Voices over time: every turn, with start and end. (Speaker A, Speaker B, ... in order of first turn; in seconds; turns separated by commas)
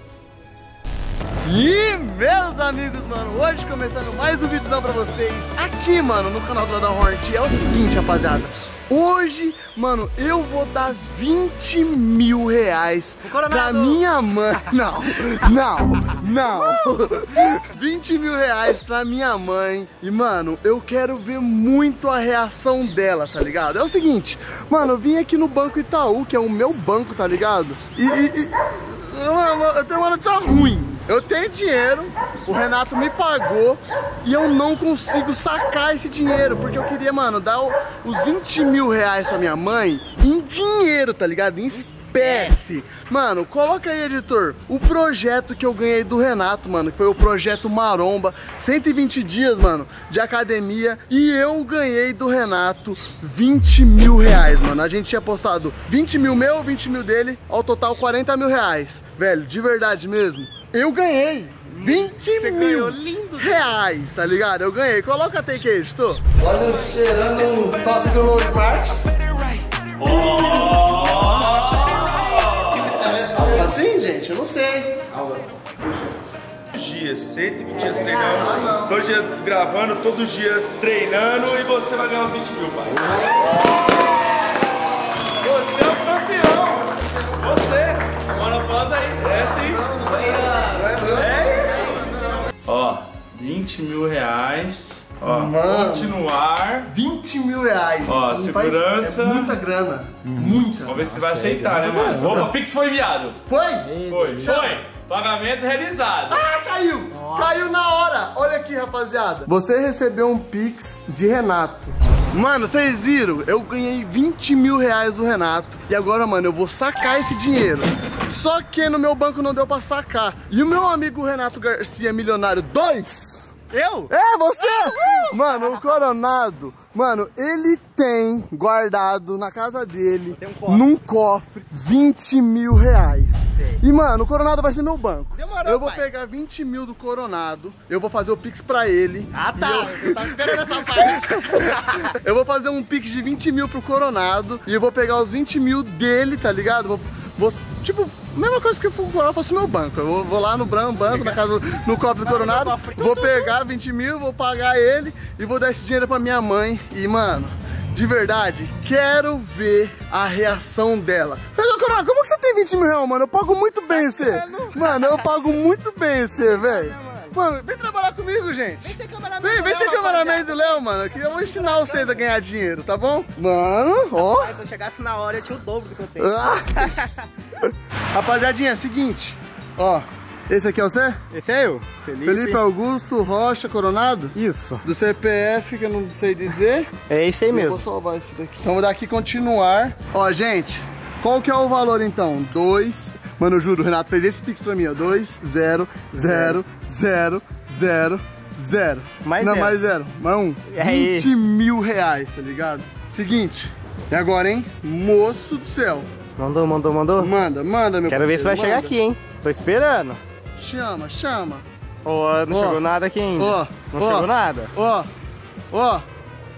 Speaker A: 1.4-69.2, Speaker B: 13.2-14.0, Speaker B: 42.0-42.5, Speaker B: 61.7-63.7, Speaker C: 70.0-73.6, Speaker A: 70.0-70.9, Speaker B: 72.8-73.7, Speaker A: 73.2-75.0, Speaker C: 75.1-76.1, Speaker C: 76.7-84.2, Speaker A: 78.2-79.0, Speaker C: 85.4-89.9, Speaker A: 86.7-87.6, Speaker A: 89.5-92.5, Speaker C: 91.0-96.9, Speaker A: 95.2-96.2, Speaker A: 96.8-101.2, Speaker C: 98.0-99.5, Speaker C: 100.3-103.4, Speaker B: 101.0-102.5, Speaker A: 102.2-102.5, Speaker A: 103.5-104.8, Speaker B: 103.8-104.7, Speaker C: 104.1-106.5, Speaker A: 106.3-123.5, Speaker B: 107.1-107.6, Speaker B: 123.7-125.9, Speaker A: 124.1-174.5, Speaker B: 130.3-130.8, Speaker B: 135.3-136.1, Speaker B: 139.3-142.1, Speaker B: 151.1-151.5, Speaker B: 152.2-153.5, Speaker B: 163.9-165.4, Speaker B: 166.4-167.4, Speaker B: 168.8-172.2, Speaker B: 174.1-177.2, Speaker A: 176.2-177.1, Speaker A: 177.6-181.2, Speaker B: 181.3-182.6, Speaker A: 182.2-186.9, Speaker B: 184.3-184.8, Speaker B: 187.1-187.8, Speaker A: 187.5-206.1, Speaker B: 196.1-196.6, Speaker B: 199.2-199.8, Speaker B: 200.7-201.3, Speaker B: 206.4-207.3, Speaker A: 207.2-208.9, Speaker B: 208.1-210.2, Speaker A: 210.6-211.6, Speaker B: 212.0-214.7, Speaker A: 212.5-212.8, Speaker A: 213.3-215.1, Speaker A: 215.7-216.0